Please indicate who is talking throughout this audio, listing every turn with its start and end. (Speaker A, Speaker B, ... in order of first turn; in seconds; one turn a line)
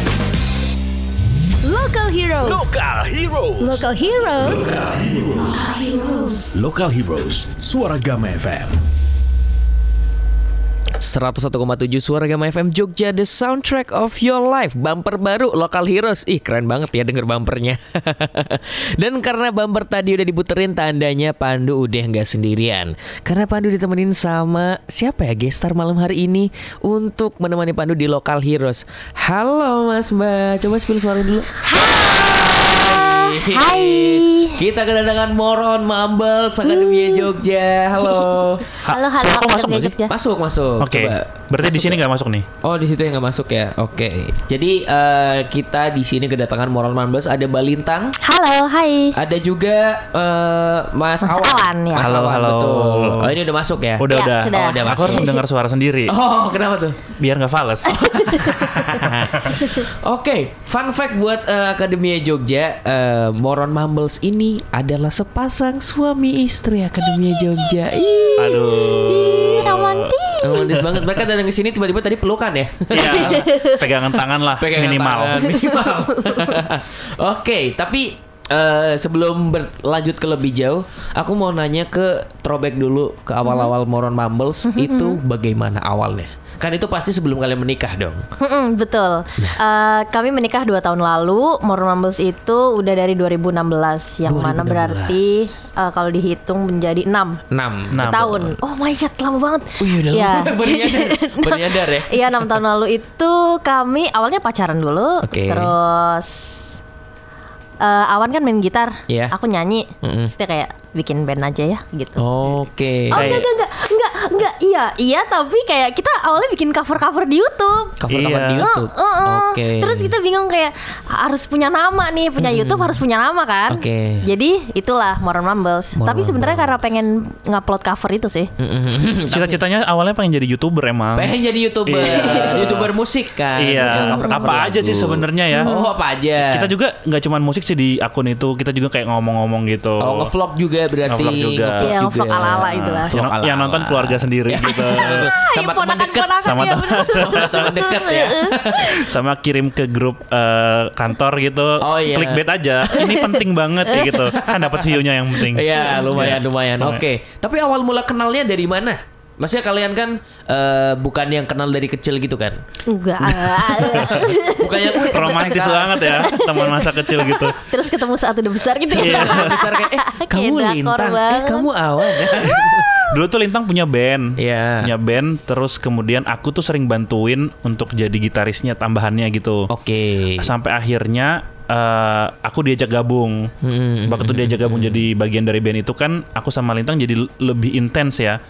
Speaker A: 1.7-2.6
Speaker B: 2.4-5.7
Speaker A: 3.6-4.6
Speaker A: 5.7-6.4
Speaker B: 6.5-8.8
Speaker C: 11.0-38.7
Speaker D: 31.6-34.6
Speaker D: 36.6-37.3
Speaker D: 38.0-38.3
Speaker E: 38.9-40.0
Speaker D: 38.9-40.1
Speaker C: 40.1-42.0
Speaker E: 40.8-42.5
Speaker C: 42.6-48.2
Speaker D: 48.2-49.2
Speaker C: 49.2-55.4
Speaker D: 51.2-52.1
Speaker E: 52.0-53.4
Speaker E: 54.0-56.2
Speaker D: 54.1-55.4
Speaker C: 56.1-57.0
Speaker E: 57.2-59.6
Speaker C: 57.9-68.6
Speaker D: 67.2-67.5
Speaker E: 68.4-71.0
Speaker D: 68.5-70.8
Speaker C: 70.4-73.5
Speaker E: 72.9-75.5
Speaker D: 73.1-73.9
Speaker C: 74.6-88.2
Speaker D: 75.6-76.6
Speaker D: 83.4-83.7
Speaker D: 84.7-85.2
Speaker D: 88.4-97.4
Speaker C: 94.3-95.5
Speaker C: 97.5-98.1
Speaker E: 97.9-98.6
Speaker D: 98.0-106.7
Speaker C: 99.8-102.6
Speaker C: 105.2-105.8
Speaker D: 107.8-112.2
Speaker C: 109.1-109.3
Speaker C: 110.0-110.3
Speaker C: 112.2-113.5
Speaker D: 113.1-118.0
Speaker E: 113.1-113.5
Speaker C: 118.0-120.2
Speaker E: 118.1-118.7
Speaker D: 118.6-128.5
Speaker C: 122.4-123.0
Speaker C: 123.7-124.3
Speaker C: 126.0-127.0
Speaker C: 128.6-129.6
Speaker E: 129.3-132.9
Speaker C: 131.2-136.7
Speaker D: 132.1-132.7
Speaker E: 133.6-135.8
Speaker D: 134.0-134.5
Speaker D: 135.5-135.9
Speaker E: 136.4-140.3
Speaker C: 140.0-149.1
Speaker E: 141.1-141.9
Speaker D: 141.8-143.2
Speaker E: 142.7-145.3
Speaker D: 144.9-148.6
Speaker E: 146.4-147.9
Speaker E: 148.8-157.0
Speaker C: 151.8-152.5
Speaker D: 152.9-154.2
Speaker C: 154.1-162.6
Speaker D: 162.9-165.4
Speaker E: 163.3-164.3
Speaker C: 163.9-166.3
Speaker E: 165.1-167.6
Speaker D: 166.0-172.6
Speaker C: 168.9-172.9
Speaker E: 168.9-169.6
Speaker E: 172.4-179.7
Speaker C: 174.4-174.9
Speaker C: 179.7-180.5
Speaker E: 180.4-183.5
Speaker C: 183.6-185.1
Speaker E: 184.1-188.4